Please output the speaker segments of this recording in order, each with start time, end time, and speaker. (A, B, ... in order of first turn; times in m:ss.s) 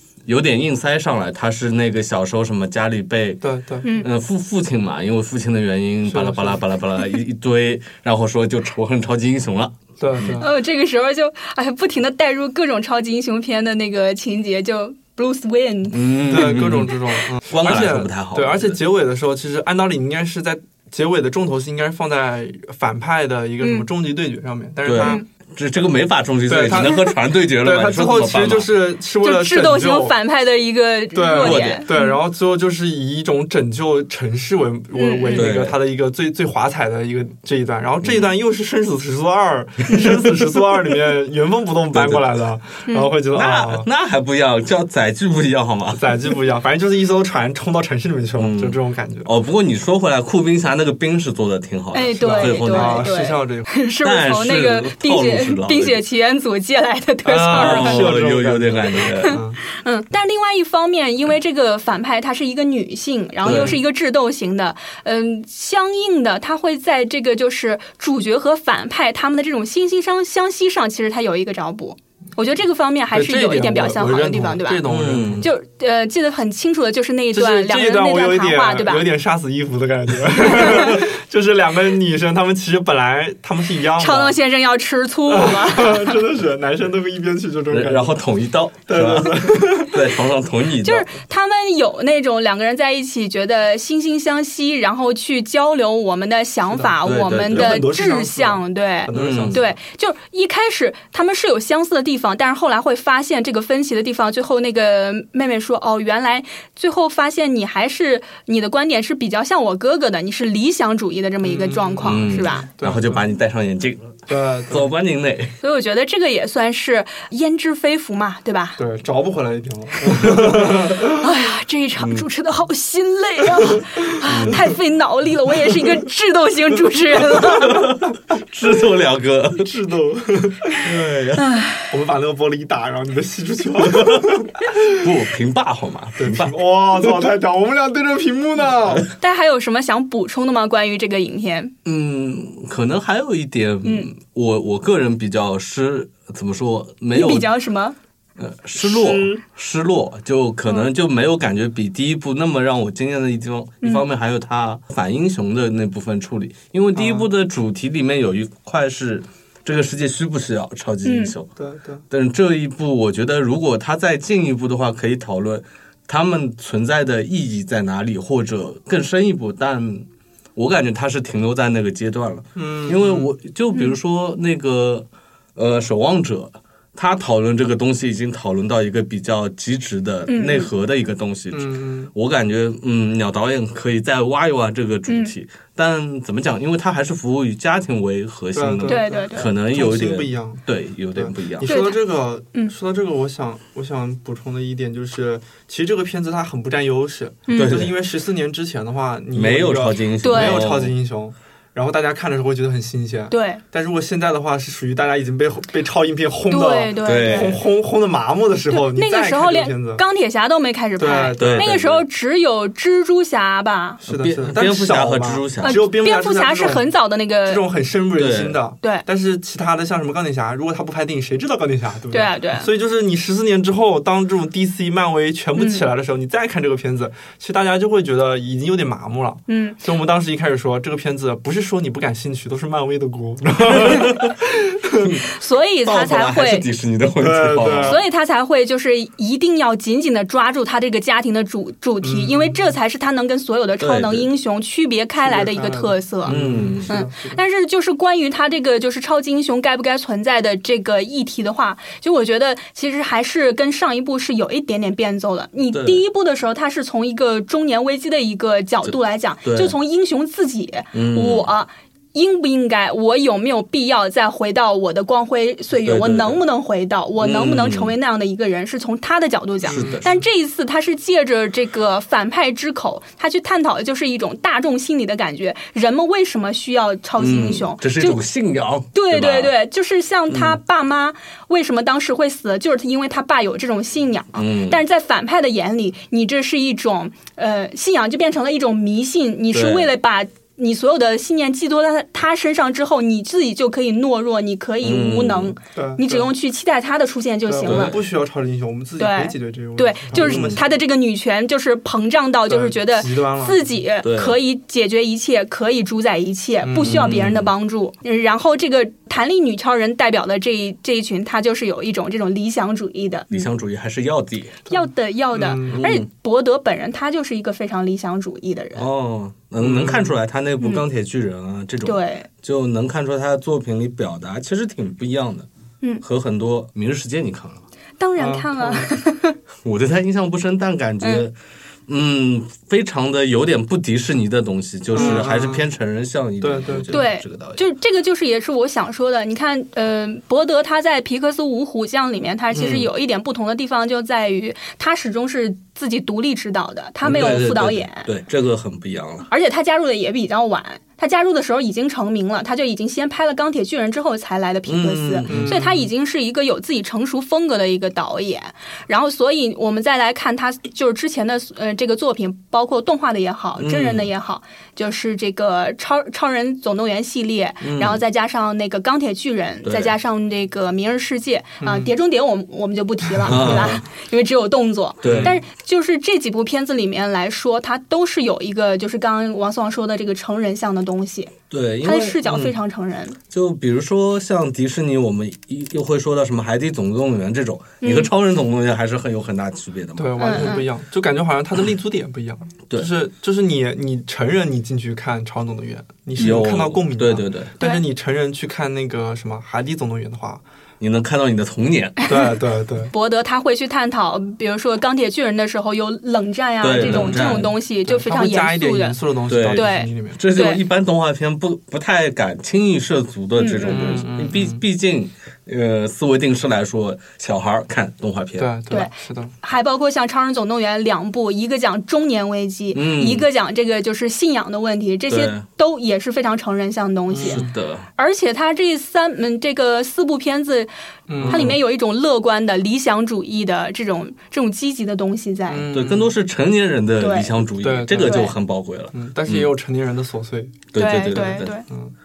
0:00.2-0:03.4 A
0:03.4-0:03.9 B
0:03.8-0:04.1 C
0:03.9-0:10.4 A
0:06.1-0:06.6 B
0:10.0-0:10.5 B
0:10.4-0:16.6 C
0:15.9-0:18.8 A
0:16.2-0:25.2 B
0:23.6-0:23.8 C
0:24.8-0:28.7 A
0:26.5-0:30.1 B
0:26.7-0:27.1 C
0:29.2-0:32.2 C
0:31.1-0:43.9 B
0:31.4-0:31.8 A
0:35.0-0:35.5 C
0:35.3-0:35.8 A
0:38.0-0:38.3 A
0:40.0-0:40.3 A
0:41.9-0:42.3 A
0:43.3-0:46.0 A
0:45.9-0:49.3 B
0:48.4-0:53.1 A
0:51.9-0:58.0 C
0:52.2-0:53.7 B
0:54.0-0:56.0 A
0:57.2-0:59.6 B
0:57.5-0:59.4 A
0:59.3-1:14.8 C
1:03.4-1:03.8 A
1:03.4-1:03.8 B
1:13.1-1:15.5 B
1:14.9-1:15.5 A
1:15.4-1:19.0 C
1:17.3-1:24.4 B
1:20.4-1:21.0 C
1:24.0-1:26.2 C
1:25.3-1:28.2 B
1:27.7-1:31.1 A
1:28.8-1:30.0 B
1:30.8-1:52.7 C
1:37.0-1:37.8 A
1:37.5-1:39.7 B
1:39.1-1:39.6 A
1:51.4-1:53.2 B
1:52.0-1:55.6 A
1:54.3-1:54.9 B
1:55.6-1:58.8 C
1:58.8-2:01.2 B
2:00.5-2:07.8 C
2:02.0-2:02.2 A
2:04.2-2:04.6 A
2:07.3-2:09.7 A
2:09.6-2:10.9 B
2:10.8-2:11.4 A
2:11.4-2:11.9 C
2:11.9-2:15.0 B
2:13.9-2:17.3 A
2:16.2-2:19.1 B
2:19.2-2:21.7 C
2:21.8-2:27.5 A
2:23.8-2:24.1 C
2:27.1-2:28.0 C
2:28.4-2:41.5 A
2:28.9-2:29.2 C
2:36.9-2:37.3 B
2:41.0-2:41.3 C
2:41.6-2:42.0 B
2:42.1-3:11.7 A
2:52.6-2:53.3 B
3:00.3-3:00.7 C
3:01.5-3:02.1 B
3:08.5-3:10.6 B
3:08.9-3:09.5 C
3:11.1-3:30.0 B
3:11.6-3:12.0 C
3:17.5-3:17.8 C
3:17.5-3:17.9 A
3:19.3-3:20.9 A
3:20.2-3:20.6 C
3:23.3-3:23.6 C
3:26.5-3:27.6 C
3:27.0-3:27.6 A
3:28.7-3:34.0 C
3:31.0-3:31.7 B
3:31.4-3:32.0 A
3:34.0-3:36.9 B
3:34.1-3:35.8 A
3:35.6-3:37.6 C
3:37.4-3:55.1 B
3:38.1-3:38.6 A
3:42.1-3:42.7 C
3:45.6-3:45.8 C
3:49.5-3:49.8 C
3:53.7-3:54.3 A
3:55.0-3:55.2 A
3:55.3-3:56.7 C
3:55.8-3:58.0 A
3:57.2-3:58.0 B
3:57.8-4:38.2 C
4:02.0-4:02.7 B
4:03.8-4:04.3 A
4:05.2-4:07.4 B
4:06.3-4:06.9 A
4:15.7-4:16.0 A
4:18.8-4:19.7 A
4:20.9-4:21.5 A
4:25.8-4:26.4 A
4:27.2-4:27.9 A
4:29.6-4:30.1 A
4:29.7-4:30.2 B
4:37.2-4:39.5 A
4:38.9-4:58.0 C
4:40.3-4:40.6 A
4:44.3-4:44.8 A
4:49.5-4:49.9 A
4:54.8-4:55.5 A
4:55.7-4:56.3 B
4:57.5-5:00.6 B
4:57.6-4:58.0 A
4:59.0-5:13.4 C
5:00.1-5:00.6 A
5:02.5-5:03.7 B
5:04.0-5:04.4 A
5:06.6-5:07.2 B
5:06.8-5:07.5 A
5:13.3-5:14.6 A
5:14.7-5:18.9 C
5:14.7-5:15.8 B
5:15.7-5:16.1 A
5:18.8-5:25.5 A
5:19.6-5:20.2 B
5:21.8-5:22.3 C
5:26.0-5:27.6 A
5:28.0-5:29.4 C
5:28.2-5:28.9 B
5:29.6-5:31.4 A
5:31.9-5:37.6 A
5:34.9-5:35.6 B
5:35.0-5:35.2 C
5:36.4-5:37.1 B
5:36.9-5:48.1 C
5:42.5-5:42.9 A
5:47.0-5:49.3 A
5:49.3-6:23.2 C
5:54.6-5:55.6 A
5:55.3-5:55.9 B
6:03.6-6:04.1 A
6:07.6-6:08.0 A
6:09.6-6:09.9 A
6:11.6-6:11.9 B
6:13.2-6:13.7 B
6:13.2-6:13.8 A
6:15.0-6:15.4 A
6:15.0-6:15.4 B
6:21.5-6:22.5 A
6:23.3-6:30.6 A
6:27.8-6:28.1 C
6:30.0-6:40.4 B
6:30.2-6:30.7 C
6:36.2-6:37.5 A
6:40.8-6:42.0 A
6:42.1-6:42.9 B
6:42.9-6:49.0 C
6:46.6-6:47.5 A
6:46.7-6:50.2 B
6:49.3-6:58.5 A
6:49.5-6:50.6 C
6:53.4-6:53.9 C
6:53.6-6:54.6 B
6:58.4-6:59.3 B
6:58.7-7:10.7 C
7:02.7-7:03.2 A
7:05.1-7:05.4 A
7:07.1-7:07.5 B
7:07.2-7:07.8 A
7:11.1-7:11.6 B
7:11.2-7:11.6 A
7:11.2-7:15.7 C
7:15.5-7:16.1 B
7:15.7-7:19.5 A
7:17.0-7:17.3 C
7:17.6-7:18.3 B
7:17.9-7:18.3 C
7:18.9-7:20.7 B
7:20.7-7:21.5 A
7:20.8-7:21.6 C